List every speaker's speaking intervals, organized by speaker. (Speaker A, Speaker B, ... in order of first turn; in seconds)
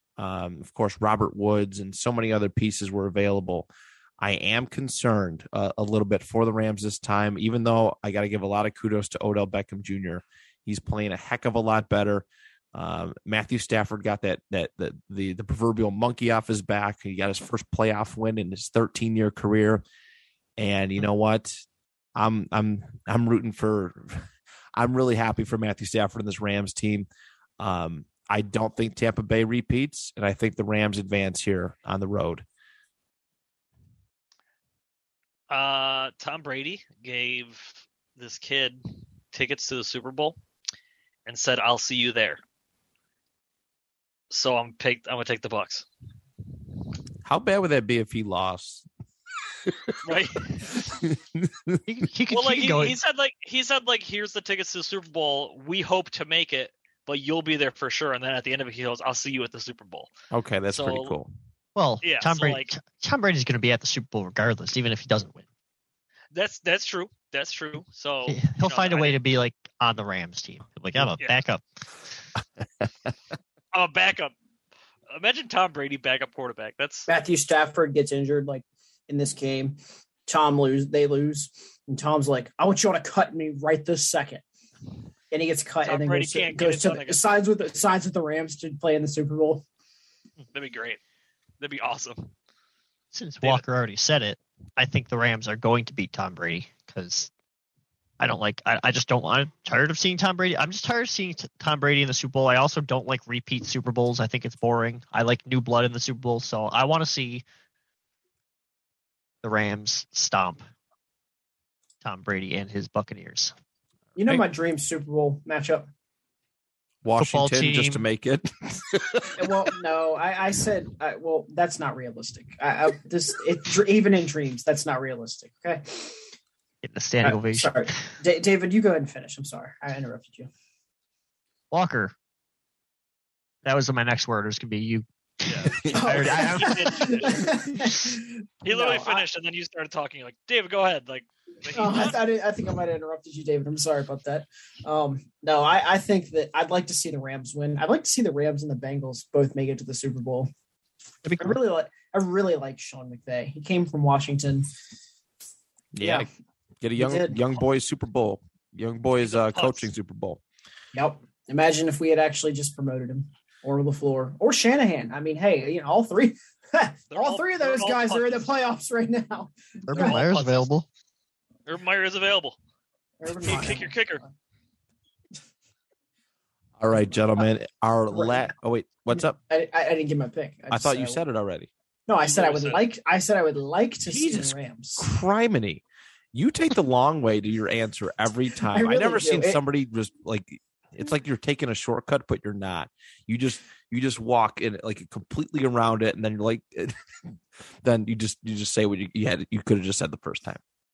Speaker A: 0.2-19.8, 20.6-21.6, 22.1-24.2, 24.7-27.1, 27.6-32.4, 47.2-48.8, 49.7-50.0, 50.7-51.8, 60.3-61.3, 117.0-119.5, 155.9-156.3, 156.8-160.4, 176.8-179.4, 180.7-181.7, 184.0-185.8, 186.3-196.9, 197.8-200.6
Speaker B: 35.5-40.4, 41.2-42.4, 44.3-45.9, 50.0-50.9, 52.3-60.1, 60.7-61.1, 62.0-62.7, 66.3-69.2, 73.7-74.3, 75.1-77.1, 85.8-87.2, 90.5-91.0, 91.6-92.3, 135.5-137.5, 138.6-142.2, 159.2-159.9, 167.1-168.5, 169.9-170.7, 171.7-172.6, 173.3-174.2, 182.2-182.8
Speaker C: 51.9-53.0, 61.8-65.4, 68.3-71.6, 93.1-97.3, 98.2-107.4, 109.4-110.6, 112.0-113.5, 117.2-118.0, 126.8-128.0, 131.7-132.1, 133.6-137.3, 151.2-151.6, 169.9-170.8
Speaker D: 77.1-84.4, 85.3-89.6, 114.2-115.9, 119.3-126.2, 127.2-130.5, 135.9-139.2, 141.7-150.5, 151.4-154.7, 156.0-156.3, 156.9-157.4, 160.9-170.2, 173.2-174.1, 178.1-178.5, 179.1-181.2, 182.1-185.1, 188.6-189.6